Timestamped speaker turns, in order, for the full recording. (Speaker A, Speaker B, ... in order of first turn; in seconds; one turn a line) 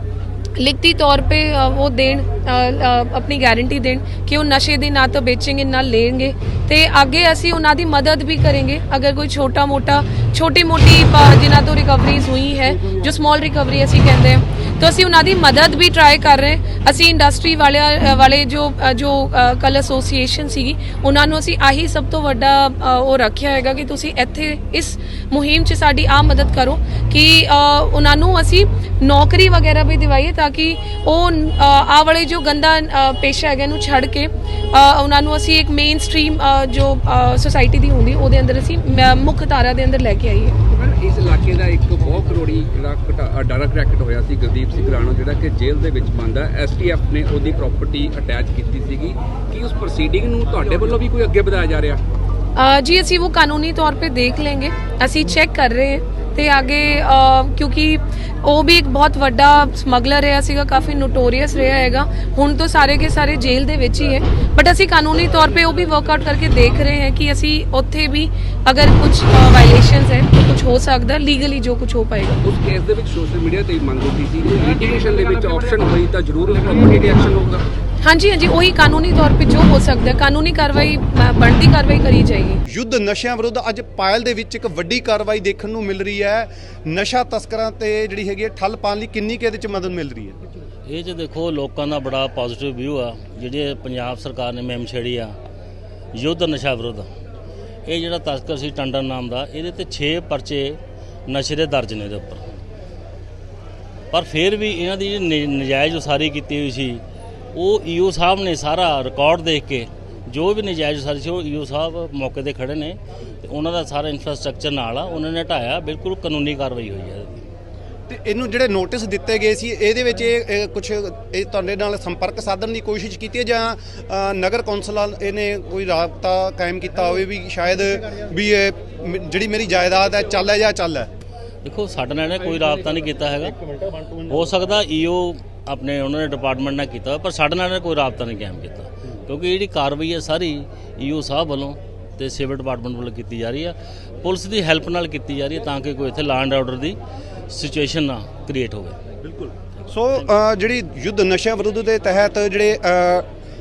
Speaker A: 0.6-40.6
Speaker B: 40.7-52.0
Speaker A: 52.6-72.4
Speaker B: 72.4-77.7
Speaker A: 78.0-82.6
Speaker C: 82.7-90.4
Speaker D: 90.9-95.4
Speaker D: 96.1-97.1
Speaker D: 97.9-102.6
Speaker D: 104.1-107.0
Speaker D: 107.5-117.5
Speaker C: 118.1-131.1
Speaker D: 131.6-147.0
Speaker D: 147.5-149.0
Speaker C: 149.2-153.3